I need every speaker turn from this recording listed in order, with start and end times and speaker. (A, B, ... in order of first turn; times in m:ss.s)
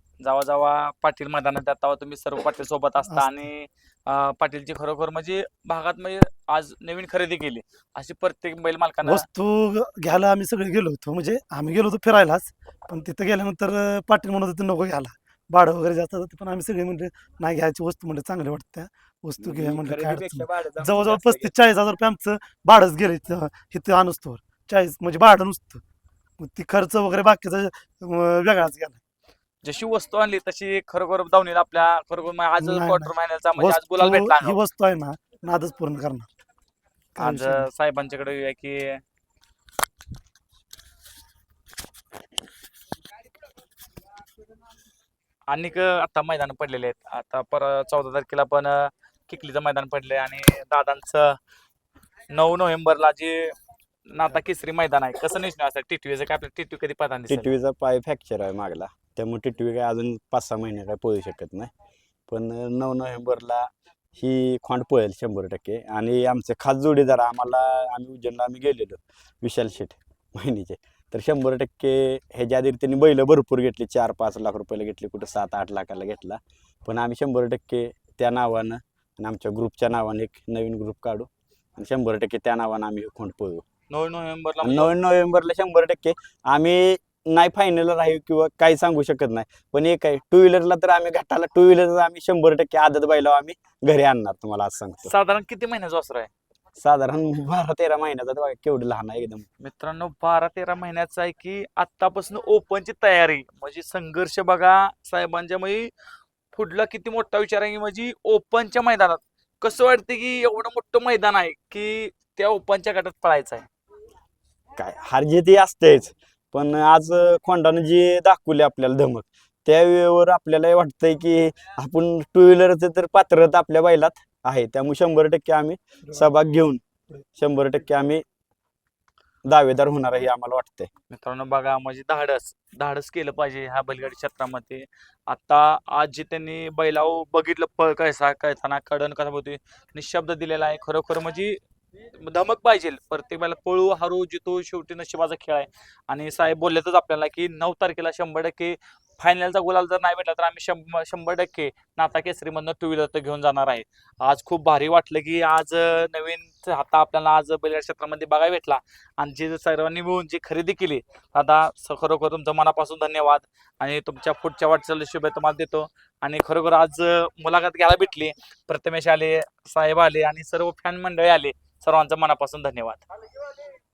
0:00.2-0:09.3 A
0:03.1-0:03.4 B
0:09.0-0:25.8 B
0:19.4-0:21.5 C
0:26.4-0:29.0 B
0:29.6-0:34.6 A
0:32.6-0:36.3 B
0:37.1-0:37.7 B
0:37.2-0:39.0 A
0:45.5-0:51.4 A
0:52.3-0:53.5 A
0:54.1-0:57.5 A
0:57.3-1:01.7 C
1:02.3-1:23.6 C
1:23.9-1:24.9 A
1:24.6-1:35.1 C
1:35.0-1:36.3 A
1:36.8-1:39.4 C
1:39.6-1:45.9 A
1:46.5-1:53.7 A
1:54.8-2:06.8 C
2:07.4-2:08.2 C
2:09.4-2:10.9 C
2:11.1-2:21.6 A
2:22.1-2:53.0 A